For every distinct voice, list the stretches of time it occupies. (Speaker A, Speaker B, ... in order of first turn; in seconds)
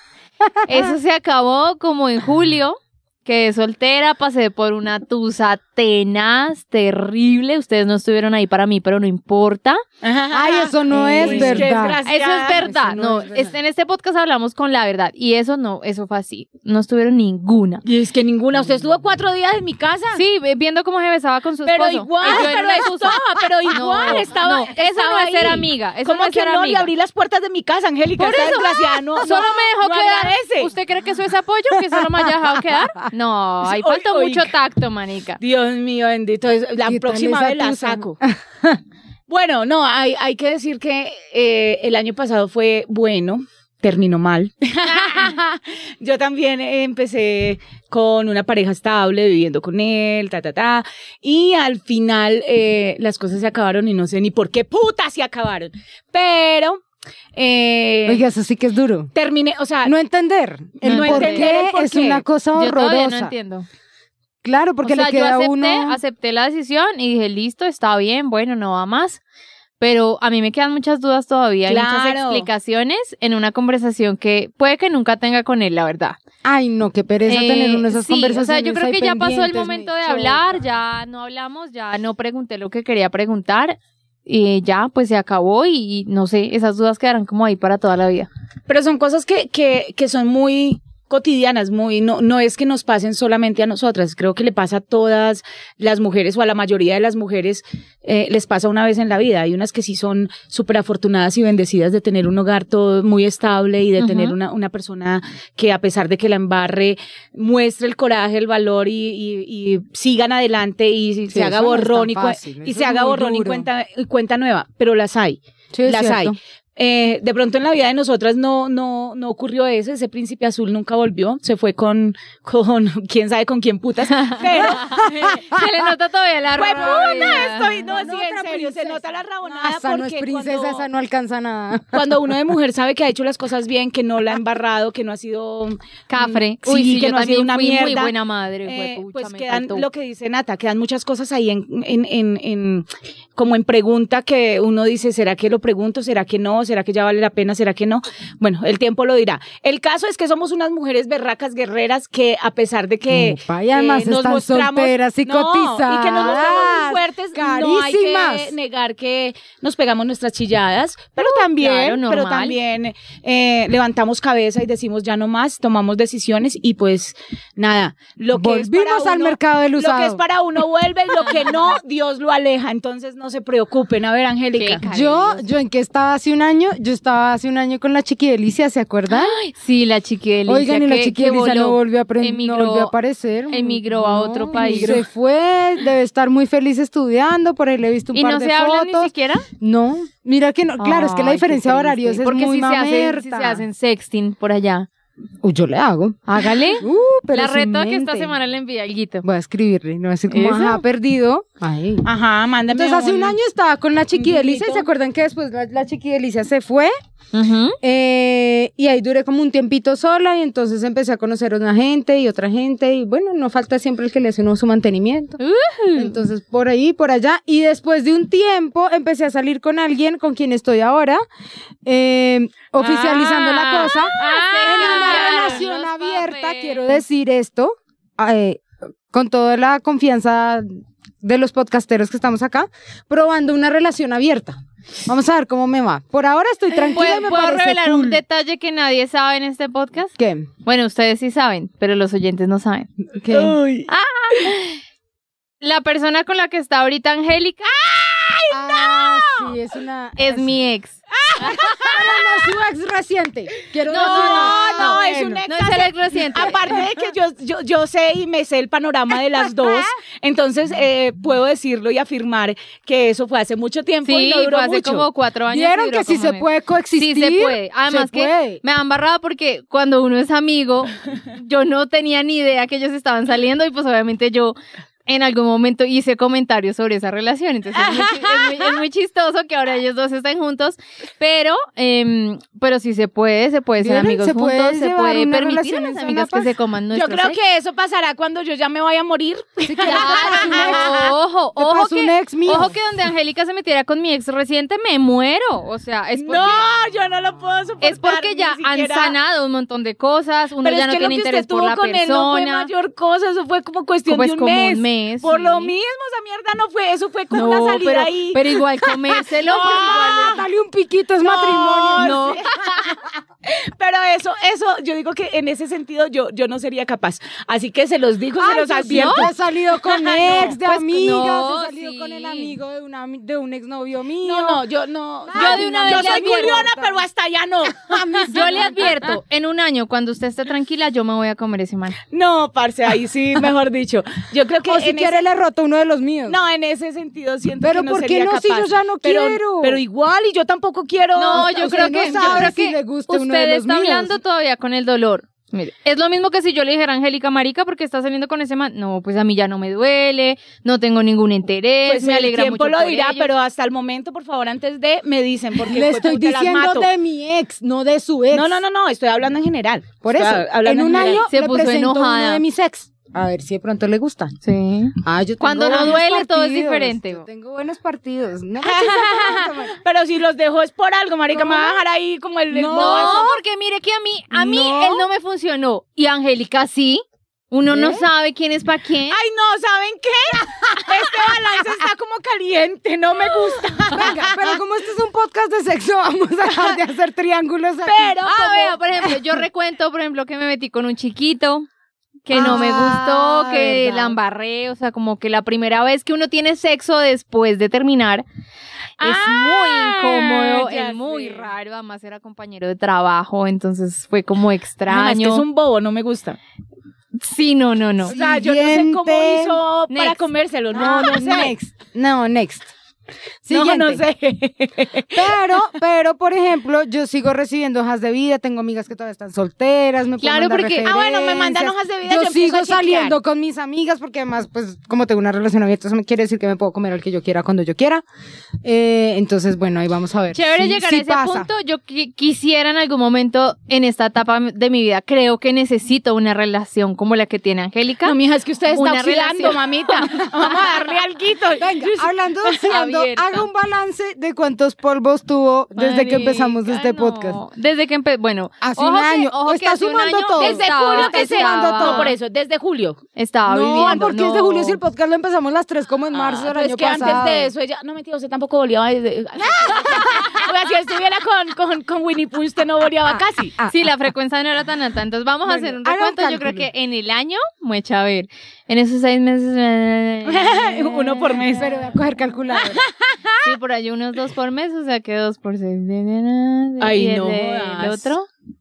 Speaker A: 0.4-0.8, 10.3-12.0, 12.6-13.5, 31.7-32.3, 36.8-38.8, 58.0-59.1, 59.8-63.3, 64.4-66.0, 76.4-80.5, 111.3-113.7, 115.7-116.3, 124.8-125.9, 126.7-132.3, 153.1-158.5, 168.3-170.2, 174.8-179.3, 180.4-193.6, 195.4-196.2, 196.8-198.3, 199.2-202.1, 202.7-206.9, 207.8-215.4, 215.9-221.2, 221.8-230.7, 231.2-238.2, 240.2-240.5, 243.2-243.6, 248.5-250.5, 251.6-255.4, 256.4-256.9, 265.5-268.6, 283.8-286.5, 289.7-292.8, 309.5-312.2, 318.4-324.6, 325.3-327.0, 327.7-329.1, 334.7-336.4, 337.6-339.8, 341.3-344.2, 355.6-358.6, 360.0-364.3, 365.0-369.8, 371.3-371.8, 372.5-373.4, 374.3-375.1, 377.7-378.1, 380.9-381.4, 383.9-388.2, 392.3-394.1, 408.0-409.6, 410.7-412.7, 413.4-414.0, 415.1-428.0, 428.6-431.5, 441.6-447.4, 448.6-452.1, 453.5-457.5, 459.4-460.4, 465.4-466.7, 471.5-472.9
Speaker B: 0.6-9.8, 11.0-17.8, 20.1-26.9, 28.2-35.4, 44.9-45.3, 60.8-61.5, 62.5-63.6, 64.8-69.2, 69.8-76.2, 77.3-88.3, 104.0-104.3, 124.1-127.7, 136.1-139.9, 161.2-162.5, 174.6-175.4, 179.1-182.9, 183.5-185.0, 188.1-189.4, 190.8-194.9, 196.3-199.2, 200.3-200.8, 207.3-207.8, 215.4-216.2, 222.8-227.0, 236.9-240.1, 240.6-242.9, 243.9-244.8, 245.6-247.7, 250.2-251.6, 253.9-256.8, 264.0-274.6, 275.1-287.4, 289.8-296.7, 297.8-302.7, 304.1-305.7, 307.3-310.4, 311.9-312.8, 318.9-319.2, 320.6-322.5, 325.3-326.6, 328.3-332.0, 341.1-353.3, 360.9-362.4, 364.4-367.2, 372.7-379.2, 388.2-391.7, 392.2-398.2, 399.0-405.4, 407.2-408.1, 409.9-410.2, 420.2-420.9, 430.3-438.1, 438.7-440.6, 442.7-443.4, 445.7-452.1, 453.1-454.8, 463.6-471.5, 473.4-478.3
Speaker C: 10.0-12.7, 17.8-20.2, 21.6-30.7, 33.6-34.5, 35.4-38.2, 39.3-56.8, 57.4-58.2, 59.1-59.9, 60.8-62.2, 71.7-72.5, 88.7-125.3, 126.6-130.9, 131.9-138.1, 138.6-174.8, 184.5-185.0, 202.0-203.3, 204.1-204.9, 224.2-225.6, 243.3-243.9, 247.7-249.6, 251.2-252.2, 253.9-265.1, 277.7-278.8, 286.9-291.0, 296.2-299.1, 300.6-308.5, 309.4-310.4, 311.2-320.6, 324.2-328.9, 332.1-335.2, 336.3-342.5, 351.9-356.9, 358.3-361.3, 368.6-373.3, 379.1-384.6, 386.4-386.8, 387.8-388.8, 392.3-392.9, 399.0-401.5, 404.9-406.4, 408.0-411.5, 413.5-415.6, 420.8-423.2, 438.0-443.0, 450.4-453.0, 456.1-463.6, 470.2-471.9, 472.6-473.4, 476.8-478.1